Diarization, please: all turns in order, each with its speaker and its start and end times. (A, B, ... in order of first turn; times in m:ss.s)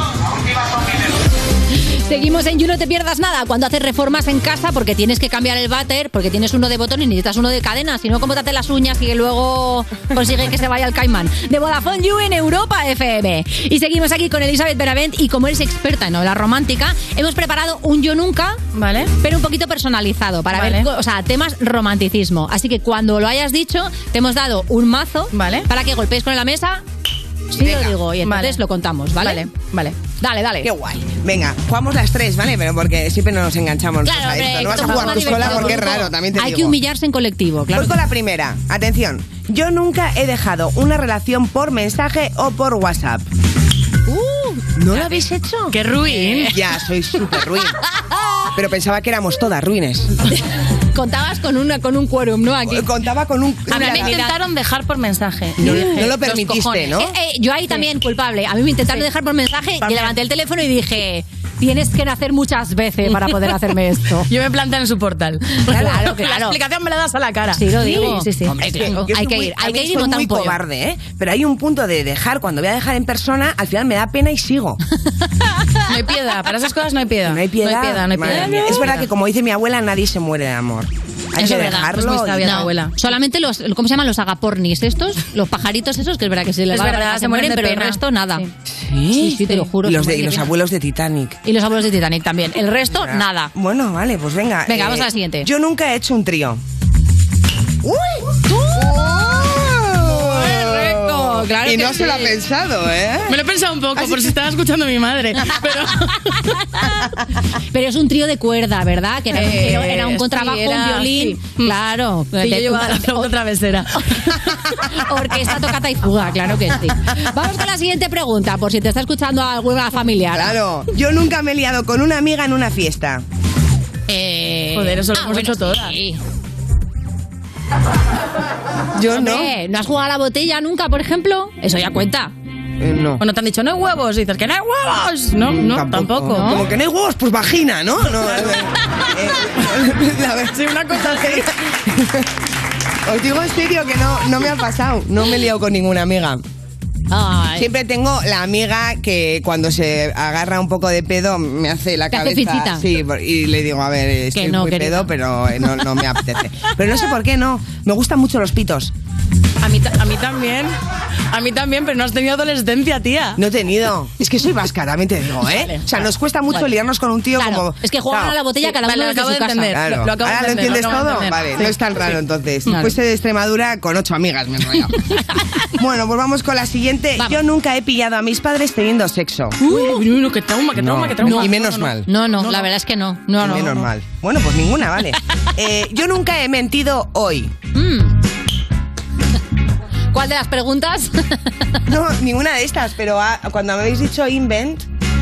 0:02.1-0:18.6 A
0:18.7-0:19.1 B
0:19.2-0:26.8 A
0:20.5-0:20.9 B
0:25.3-0:25.7 B
0:27.5-0:29.5 A
0:27.6-0:28.0 C
0:28.2-0:28.6 B
0:29.2-0:30.0 B
0:30.2-0:30.7 A
0:30.6-0:36.8 C
0:34.0-0:37.9 A
0:34.8-0:35.9 B
0:37.7-0:43.3 C
0:44.1-0:45.2 A
0:44.8-0:45.8 C
0:45.7-0:46.6 B
0:46.1-0:46.6 A
0:46.3-0:47.8 C
0:48.5-0:50.2 C
0:50.9-0:52.9 A
0:52.6-0:54.2 C
0:53.7-0:54.4 A
0:53.7-0:57.0 B
0:55.6-0:57.2 C
0:55.6-0:56.1 A
0:57.0-1:04.3 A
0:59.8-1:00.2 B
1:03.0-1:03.7 B
1:04.3-1:09.0 B
1:05.6-1:06.6 A
1:07.5-1:10.6 A
1:08.6-1:14.8 C
1:15.9-1:19.0 B
1:17.3-1:22.6 C
1:18.2-1:19.0 A
1:21.4-1:28.5 A
1:21.5-1:23.0 B
1:26.7-1:28.5 B
1:28.7-1:31.4 C
1:29.1-1:30.5 A
1:31.4-1:33.5 A
1:32.9-1:36.6 C
1:34.7-1:35.5 A
1:37.8-1:43.4 C
1:40.0-1:42.4 A
1:43.3-1:46.4 B
1:44.0-1:44.3 C
1:46.3-1:47.1 A
1:47.7-1:53.3 A
1:49.3-1:51.8 B
1:52.3-1:54.6 B
1:54.3-2:00.6 A
2:00.3-2:03.2 C
2:04.1-2:06.2 A
2:04.7-2:06.0 B
2:09.0-2:09.5 C
2:09.1-2:12.3 A
2:12.8-2:13.2 C
2:13.2-2:16.6 B
2:15.4-2:22.3 C
2:16.3-2:16.7 A
2:18.1-2:18.6 B
2:20.4-2:21.5 B
2:23.0-2:26.4 C
2:27.1-2:27.7 A
2:27.6-2:38.9 C
2:32.1-2:32.9 A
2:34.3-2:35.1 A
2:39.6-2:40.8 B
2:41.3-2:43.4 B
2:43.4-2:48.4 C
2:45.6-2:45.8 B
2:47.4-2:49.8 A
2:48.6-2:52.2 B
2:49.8-2:55.0 C
2:52.7-2:52.9 B
2:55.7-2:59.6 C
2:59.6-3:02.7 B
2:59.7-3:00.0 A
3:00.8-3:02.1 C
3:01.2-3:03.9 A
3:03.4-3:07.5 C
3:07.8-3:08.1 A
3:10.1-3:11.4 A
3:11.9-3:14.9 C